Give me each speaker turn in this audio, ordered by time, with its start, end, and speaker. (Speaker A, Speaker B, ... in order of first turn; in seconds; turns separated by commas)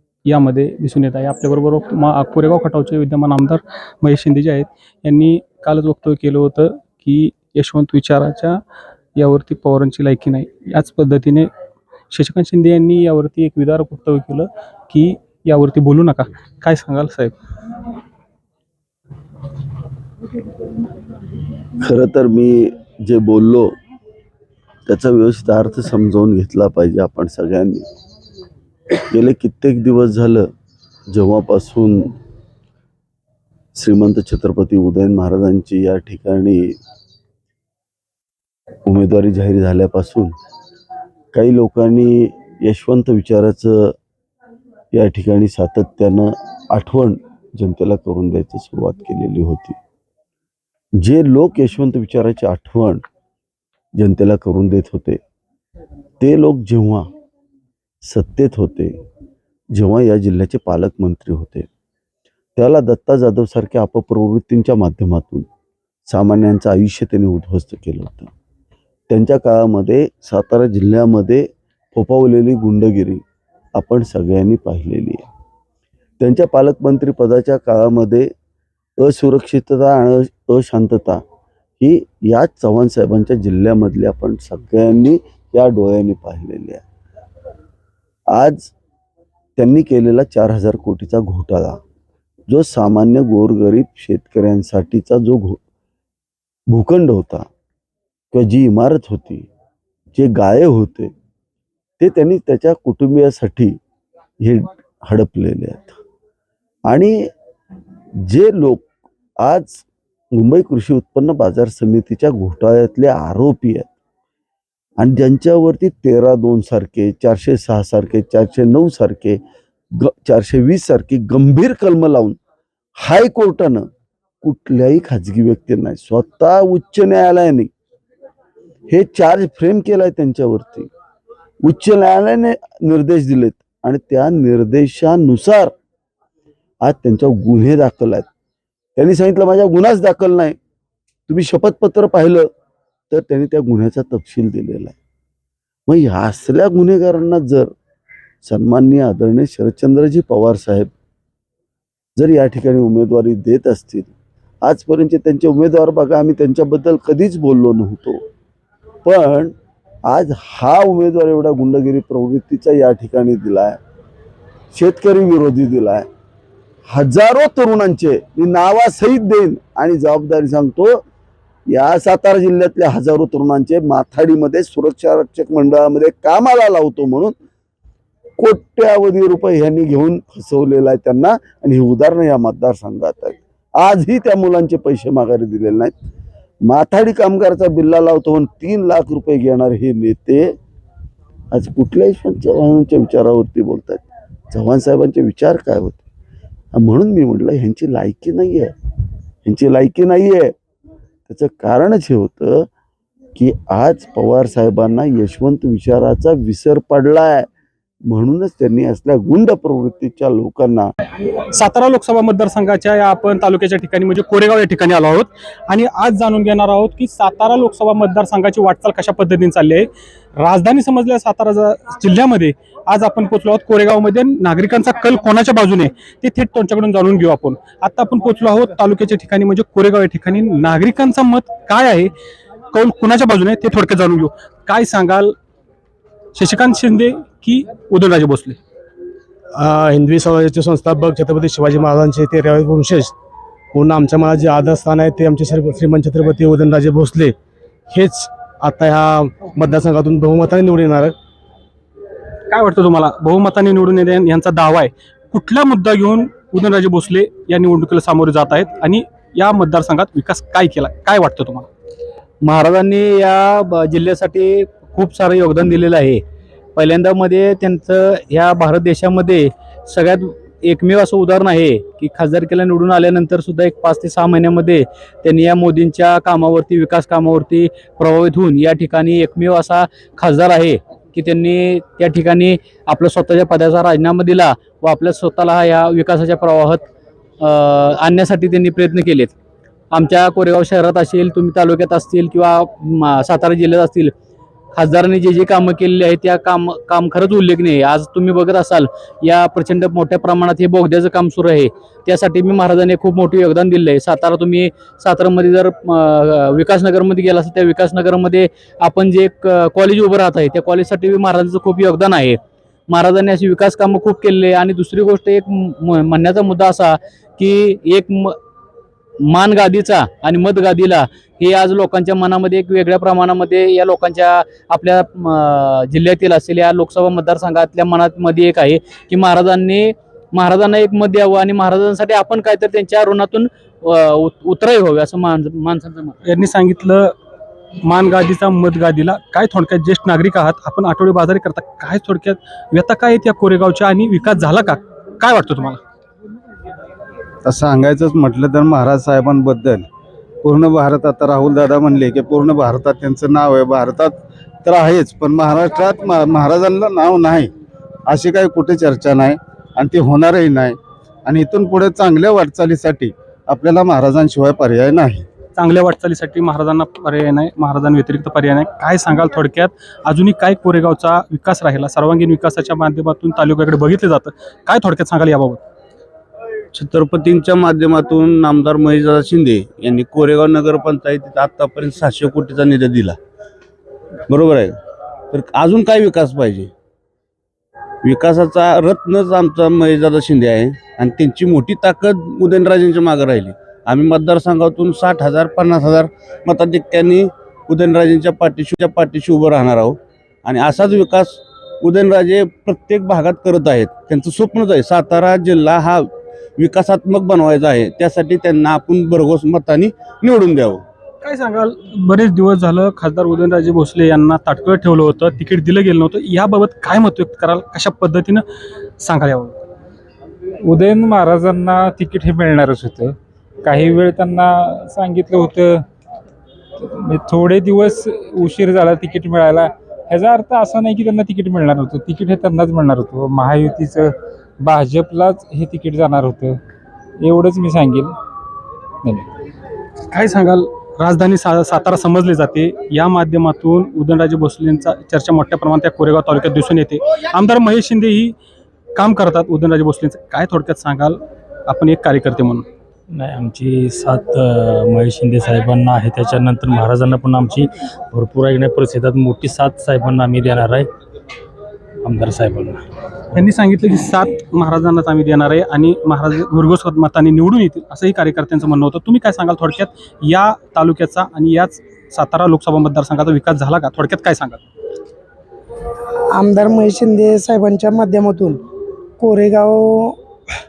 Speaker A: 0.2-8.6, Speaker A: 9.2-11.5, Speaker A: 12.1-17.4, Speaker B: 21.8-23.7, Speaker B: 24.9-27.9, Speaker B: 29.1-30.5, Speaker B: 31.1-32.1, Speaker B: 33.8-36.8, Speaker B: 38.9-40.3, Speaker B: 41.3-43.9, Speaker B: 44.9-49.8, Speaker B: 51.0-53.0, Speaker B: 54.0-55.2, Speaker B: 56.2-57.1, Speaker B: 58.1-58.9, Speaker B: 59.7-61.7, Speaker B: 62.6-65.5, Speaker B: 66.1-68.3, Speaker B: 69.1-73.2, Speaker B: 73.8-75.3, Speaker B: 76.2-78.3, Speaker B: 79.0-81.2, Speaker B: 81.8-86.8, Speaker B: 88.3-88.7, Speaker B: 89.6-91.8, Speaker B: 92.5-95.6, Speaker B: 96.7-97.5, Speaker B: 98.3-99.5, Speaker B: 100.2-101.1, Speaker B: 102.0-103.8, Speaker B: 104.4-106.0, Speaker B: 106.9-107.3, Speaker B: 108.2-108.8, Speaker B: 109.4-113.9, Speaker B: 115.0-119.4, Speaker B: 120.0-122.4, Speaker B: 123.0-123.9, Speaker B: 124.4-127.7, Speaker B: 128.9-130.9, Speaker B: 131.6-135.7, Speaker B: 136.8-138.3, Speaker B: 139.0-140.6, Speaker B: 141.3-142.5, Speaker B: 143.1-144.9, Speaker B: 145.9-147.7, Speaker B: 148.5-150.9, Speaker B: 152.2-154.1, Speaker B: 154.7-158.2, Speaker B: 159.1-159.5, Speaker B: 160.1-163.8, Speaker B: 164.8-166.1, Speaker B: 166.9-171.0, Speaker B: 171.7-177.3, Speaker B: 178.4-185.9, Speaker B: 186.7-190.6, Speaker B: 191.5-196.0, Speaker B: 196.7-198.7, Speaker B: 199.4-200.5, Speaker B: 201.3-202.7, Speaker B: 203.4-207.5, Speaker B: 208.1-210.9, Speaker A: 211.5-232.1, Speaker A: 232.7-235.3, Speaker A: 236.3-238.6, Speaker C: 239.6-243.1, Speaker C: 243.7-247.3, Speaker C: 247.9-251.2, Speaker A: 252.5-261.7, Speaker D: 262.4-266.2, Speaker D: 266.8-286.8, Speaker D: 287.4-289.3, Speaker D: 289.9-294.1, Speaker D: 294.8-318.4, Speaker D: 319.3-336.2, Speaker A: 336.2-337.1, Speaker A: 337.9-345.8, Speaker E: 347.4-348.4, Speaker F: 347.9-349.6, Speaker E: 350.4-350.8, Speaker F: 350.8-357.5, Speaker E: 352.0-353.1, Speaker F: 358.1-365.3, Speaker A: 365.6-375.6, Speaker E: 376.7-383.2, Speaker E: 384.3-384.8, Speaker E: 385.3-386.7, Speaker E: 388.0-410.9, Speaker A: 411.2-418.4, Speaker A: 419.0-419.6, Speaker G: 420.6-425.9, Speaker G: 426.8-436.6, Speaker G: 437.2-438.1, Speaker A: 440.1-448.4, Speaker A: 449.0-452.7, Speaker H: 453.1-460.9, Speaker H: 462.0-462.8, Speaker A: 463.4-474.6, Speaker I: 476.3-478.6, Speaker I: 479.2-480.2